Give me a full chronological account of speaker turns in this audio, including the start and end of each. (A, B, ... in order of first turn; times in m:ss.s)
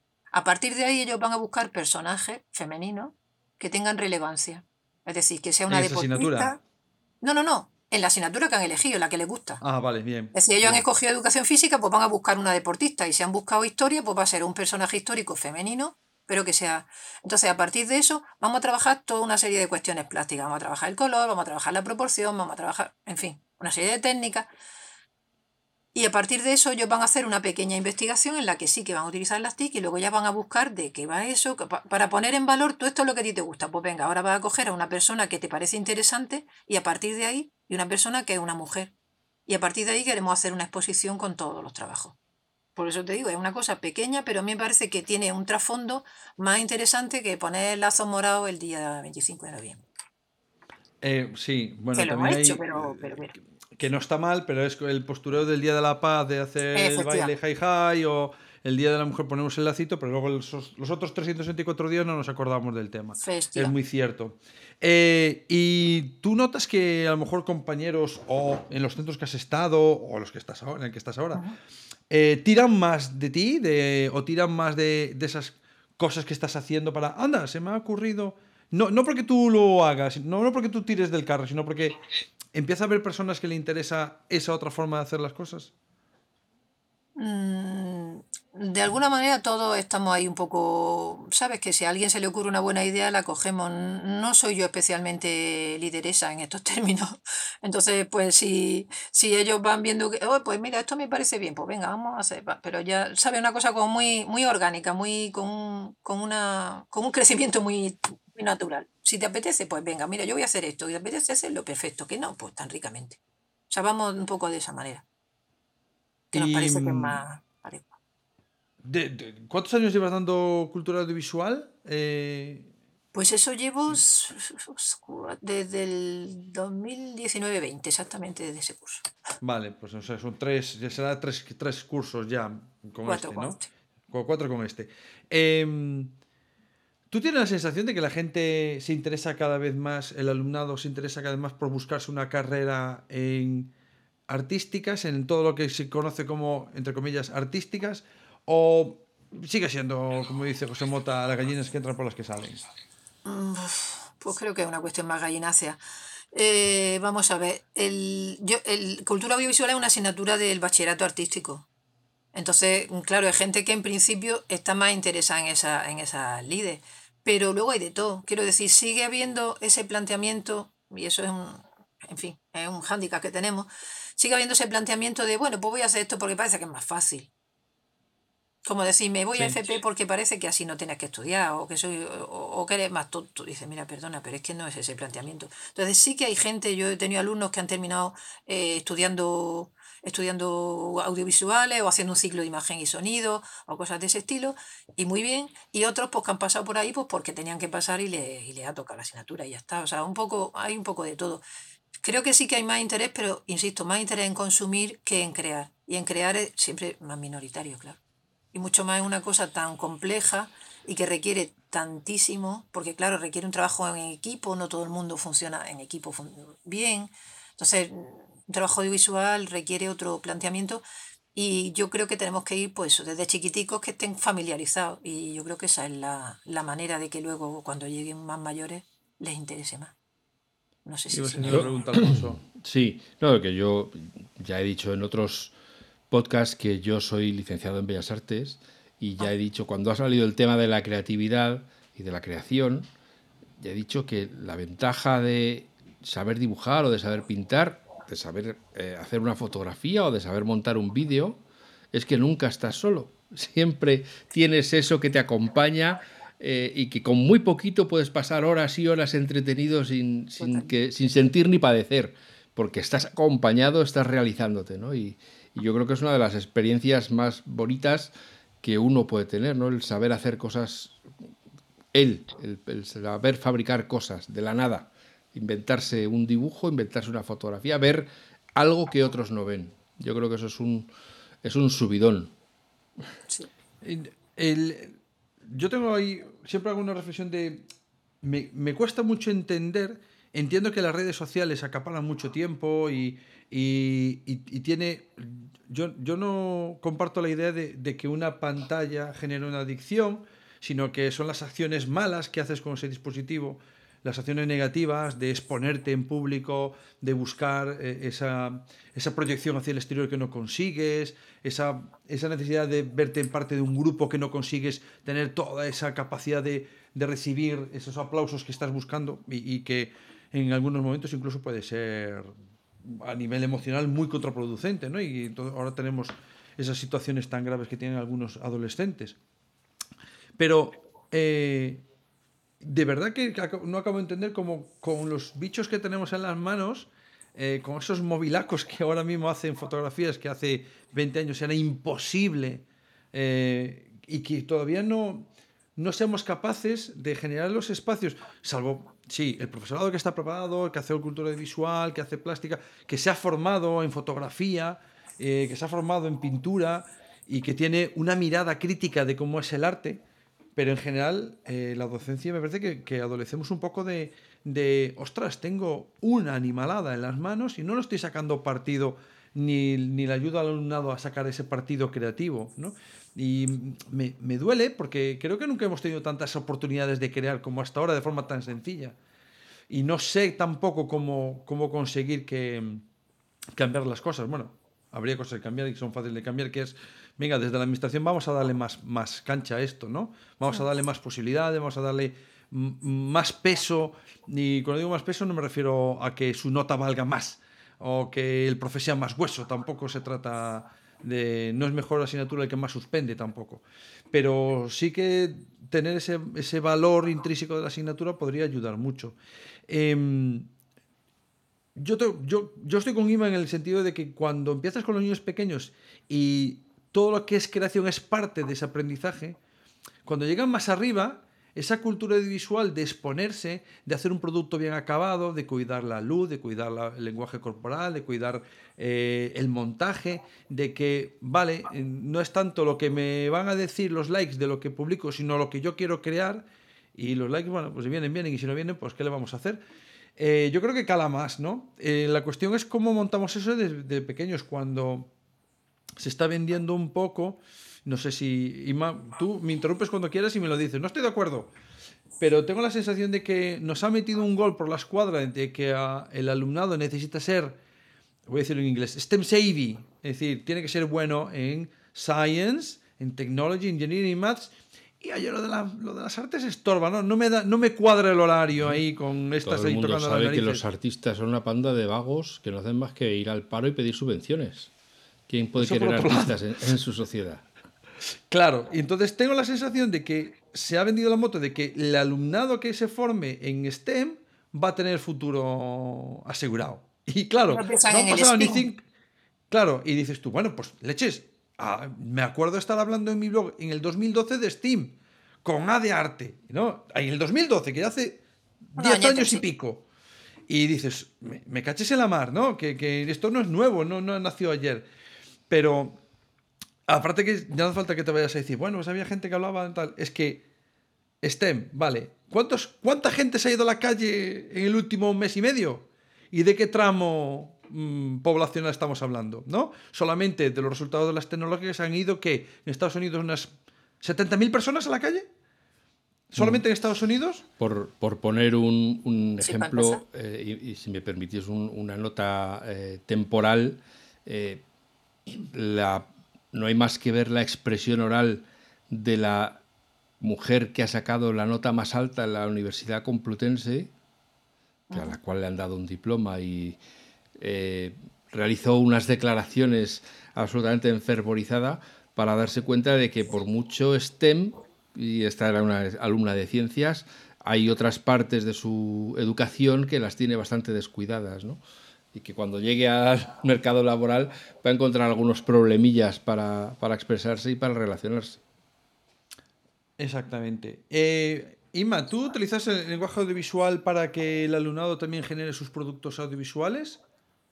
0:00.3-0:06.6 A
0:05.7-0:06.5 B
0:07.2-0:09.6 A
0:09.6-0:10.8 B
0:10.3-0:24.5 A
0:25.9-0:38.9 A
0:39.5-0:42.2 A
0:42.8-0:49.8 A
0:51.0-1:11.4 B
0:52.0-0:53.4 A
0:56.7-0:57.3 A
1:03.2-1:03.7 A
1:12.1-1:22.0 B
1:22.5-1:25.7 B
1:27.2-1:53.2 A
1:53.7-1:55.0 A
1:56.3-1:57.9 A
1:56.3-1:57.2 B
1:58.8-2:02.7 B
2:03.1-2:09.1 A
2:09.4-2:13.6 B
2:13.0-2:13.7 A
2:14.1-2:16.1 B
2:17.1-2:23.7 B
2:24.3-2:32.6 B
2:33.2-2:35.8 A
2:36.3-2:41.7 A
2:42.3-2:57.3 A
2:58.6-3:21.4 A
3:22.0-3:28.0 A
3:28.5-3:40.8 A
3:41.4-3:49.9 A
3:50.8-3:51.7 A
3:51.1-3:52.4 B
3:51.4-3:55.5 C
3:56.1-4:02.9 C
4:03.6-4:11.4 C
4:11.9-4:31.0 C
4:20.4-4:20.7 A
4:31.9-4:40.9 C
4:41.4-4:42.3 C
4:43.8-4:47.6 B
4:48.2-5:22.3 B
5:22.8-5:29.2 B
5:30.4-5:31.8 B
5:32.6-6:00.0 B
6:00.6-6:19.0 B
6:19.7-6:22.8 B
6:23.6-6:49.2 B
6:49.7-6:50.5 B
6:51.8-6:59.4 B
7:00.1-7:19.6 B
7:20.2-7:25.1 B
7:26.0-7:31.5 B
7:32.2-7:37.6 B
7:38.3-7:50.6 B
7:49.4-7:54.7 C
7:55.3-7:57.4 C
7:55.6-7:56.4 B
7:58.3-8:08.8 B
8:07.5-8:08.7 A
8:09.5-8:18.2 B
8:18.8-8:19.8 B
8:18.8-8:19.4 A
8:20.5-8:24.9 B
8:25.5-8:26.0 B
8:26.9-8:30.4 B
8:31.2-8:43.5 B
8:44.0-8:45.3 B
8:46.3-8:47.4 B
8:46.4-8:46.6 C
8:47.6-8:54.6 C
8:49.4-8:50.0 A
8:55.3-8:59.6 C
9:00.2-9:03.9 C
9:04.9-9:05.2 A
9:04.9-9:06.8 C
9:07.4-9:21.6 C
9:22.1-9:28.4 C
9:30.0-9:37.0 B